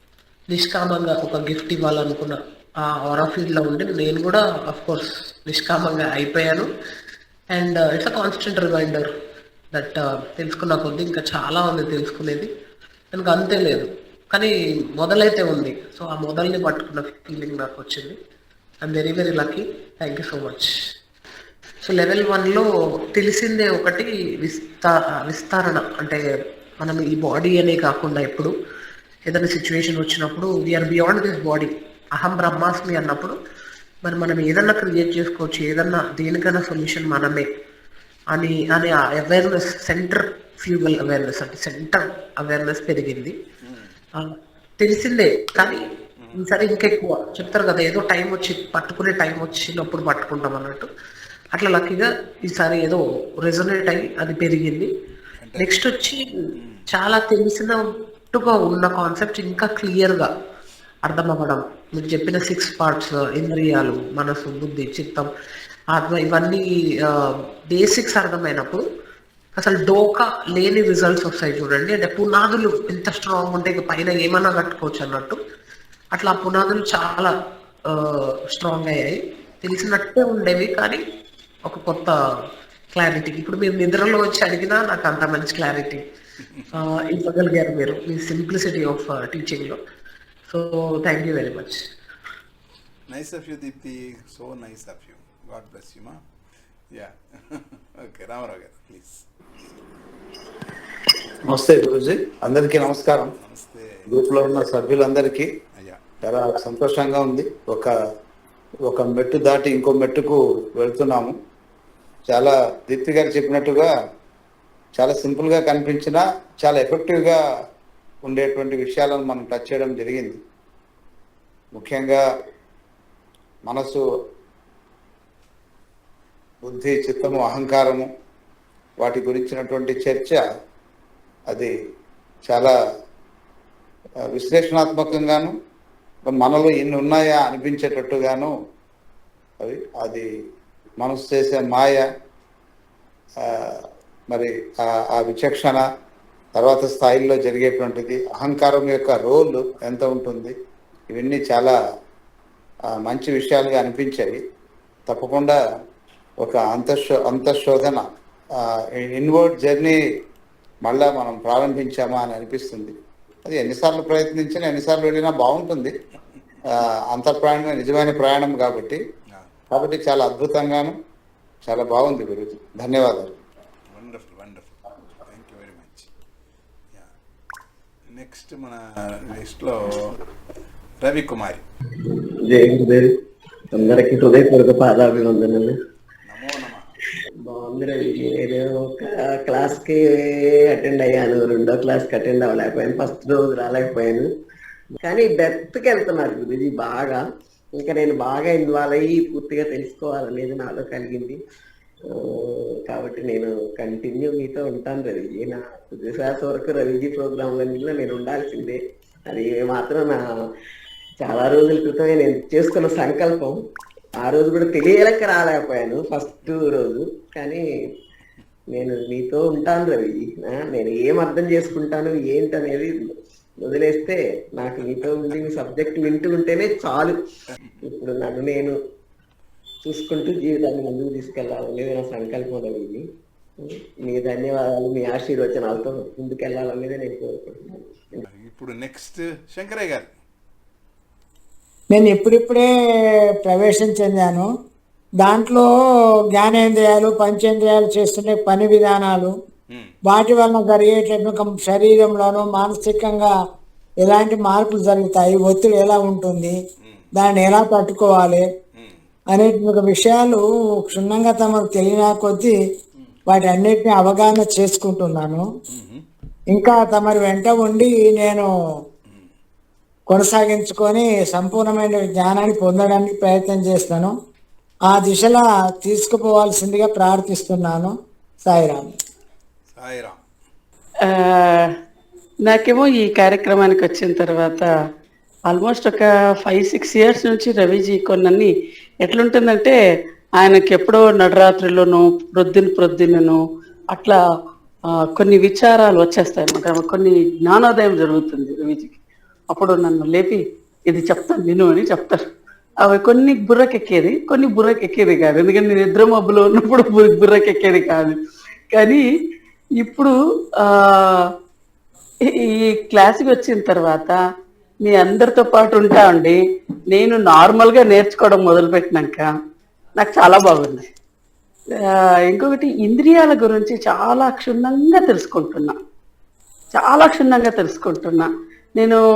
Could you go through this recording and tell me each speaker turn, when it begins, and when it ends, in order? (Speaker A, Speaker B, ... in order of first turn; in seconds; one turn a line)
Speaker A: 0.5-6.7
Speaker A: 7.5-9.1
Speaker A: 9.7-12.5
Speaker A: 13.1-18.2
Speaker A: 18.8-20.7
Speaker A: 21.8-28.5
Speaker A: 29.3-33.4
Speaker A: 34.0-37.5
Speaker A: 38.3-43.4
Speaker B: 43.6-44.0
Speaker A: 44.1-50.9
Speaker B: 46.2-46.5
Speaker A: 51.5-54.9
Speaker B: 55.4-55.8
Speaker A: 55.6-60.3
Speaker B: 56.5-56.9
Speaker A: 61.0-65.3
Speaker A: 65.9-68.8
Speaker A: 69.6-75.4
Speaker A: 76.1-81.0
Speaker A: 81.7-86.0
Speaker B: 86.4-86.8
Speaker A: 86.7-89.8
Speaker A: 90.5-91.9
Speaker B: 93.1-96.2
Speaker B: 96.9-99.2
Speaker C: 101.5-103.3
Speaker B: 103.3-104.0
Speaker C: 104.1-105.5
Speaker C: 106.2-107.9
Speaker C: 108.9-111.4
Speaker C: 112.3-113.9
Speaker C: 115.0-117.4
Speaker C: 118.2-120.4
Speaker C: 121.8-122.2
Speaker C: 123.7-124.0
Speaker C: 126.6-128.1
Speaker C: 129.0-130.4
Speaker C: 132.5-132.7
Speaker C: 134.3-135.5
Speaker C: 136.3-138.5
Speaker C: 139.6-140.3
Speaker C: 141.0-142.1
Speaker C: 143.4-145.8
Speaker C: 146.6-150.6
Speaker C: 151.1-151.8
Speaker C: 152.9-154.4
Speaker C: 155.1-155.6
Speaker C: 156.4-160.0
Speaker C: 160.9-162.9
Speaker C: 163.4-165.9
Speaker C: 166.7-169.0
Speaker C: 169.7-171.0
Speaker C: 171.6-173.3
Speaker B: 173.9-176.1
Speaker B: 178.1-180.3
Speaker B: 181.0-181.6
Speaker D: 182.1-183.1
Speaker D: 183.7-185.8
Speaker B: 183.8-184.0
Speaker B: 186.2-186.9
Speaker D: 187.4-194.3
Speaker D: 195.0-197.2
Speaker D: 197.8-201.4
Speaker D: 202.1-210.2
Speaker D: 211.2-213.6
Speaker D: 214.2-217.7
Speaker D: 218.7-227.2
Speaker B: 224.8-225.3
Speaker B: 227.5-227.8
Speaker D: 227.9-228.8
Speaker D: 229.8-233.1
Speaker D: 233.6-238.2
Speaker B: 238.2-240.1
Speaker E: 241.9-242.7
Speaker E: 243.5-244.5
Speaker E: 245.2-245.7
Speaker E: 246.3-249.3
Speaker B: 249.7-250.0
Speaker E: 250.1-253.3
Speaker E: 254.0-256.6
Speaker B: 256.8-257.1
Speaker E: 257.1-258.5
Speaker B: 258.8-259.1
Speaker E: 259.3-262.6
Speaker E: 263.3-265.5
Speaker B: 265.7-266.1
Speaker E: 266.5-268.5
Speaker B: 269.1-269.3
Speaker E: 270.1-274.1
Speaker E: 274.9-277.9
Speaker E: 278.5-278.9
Speaker B: 279.7-280.2
Speaker F: 281.1-281.7
Speaker F: 282.5-284.7
Speaker F: 285.5-288.5
Speaker F: 289.0-289.8
Speaker F: 290.4-293.4
Speaker F: 293.9-294.2
Speaker F: 295.0-299.0
Speaker F: 299.5-302.3
Speaker F: 302.8-308.2
Speaker F: 308.7-309.1
Speaker F: 309.8-311.3
Speaker F: 312.3-314.2
Speaker F: 314.9-316.4
Speaker F: 316.9-319.3
Speaker F: 320.0-320.9
Speaker F: 322.3-325.8
Speaker F: 326.7-329.0